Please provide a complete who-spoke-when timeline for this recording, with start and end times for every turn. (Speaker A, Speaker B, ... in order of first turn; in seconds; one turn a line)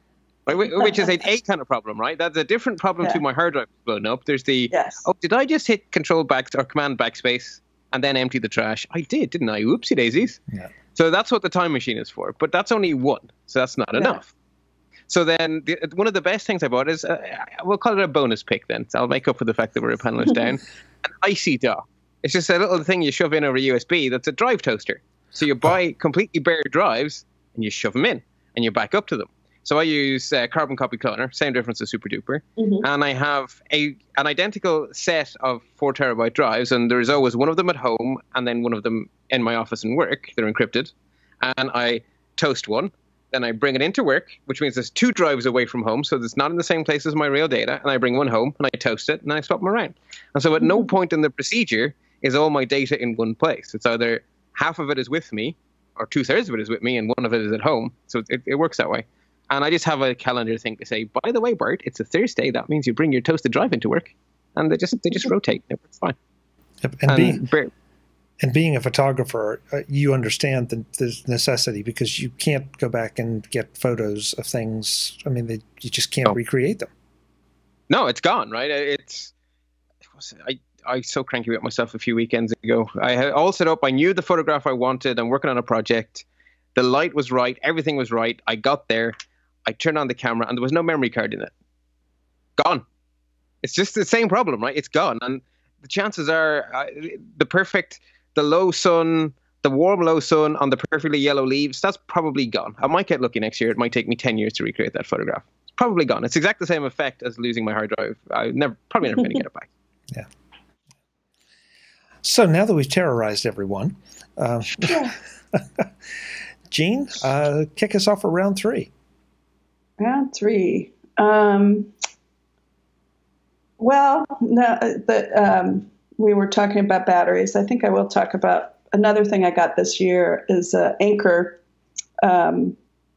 Speaker A: 0.5-10.4
Speaker B: 4.7-5.0
Speaker A: 10.9-14.3
Speaker B: 13.9-14.2
Speaker A: 15.1-66.2
Speaker B: 32.6-32.9
Speaker B: 50.6-50.9
Speaker C: 66.8-67.4
Speaker A: 67.1-67.7
Speaker C: 68.4-76.9
Speaker A: 77.9-79.3
Speaker A: 80.2-89.2
Speaker A: 89.7-91.5
Speaker A: 92.6-92.8
Speaker A: 93.6-109.7
Speaker C: 112.2-115.9
Speaker B: 114.9-115.2
Speaker C: 116.7-118.9
Speaker B: 120.0-121.9
Speaker B: 123.8-131.6
Speaker B: 132.2-132.8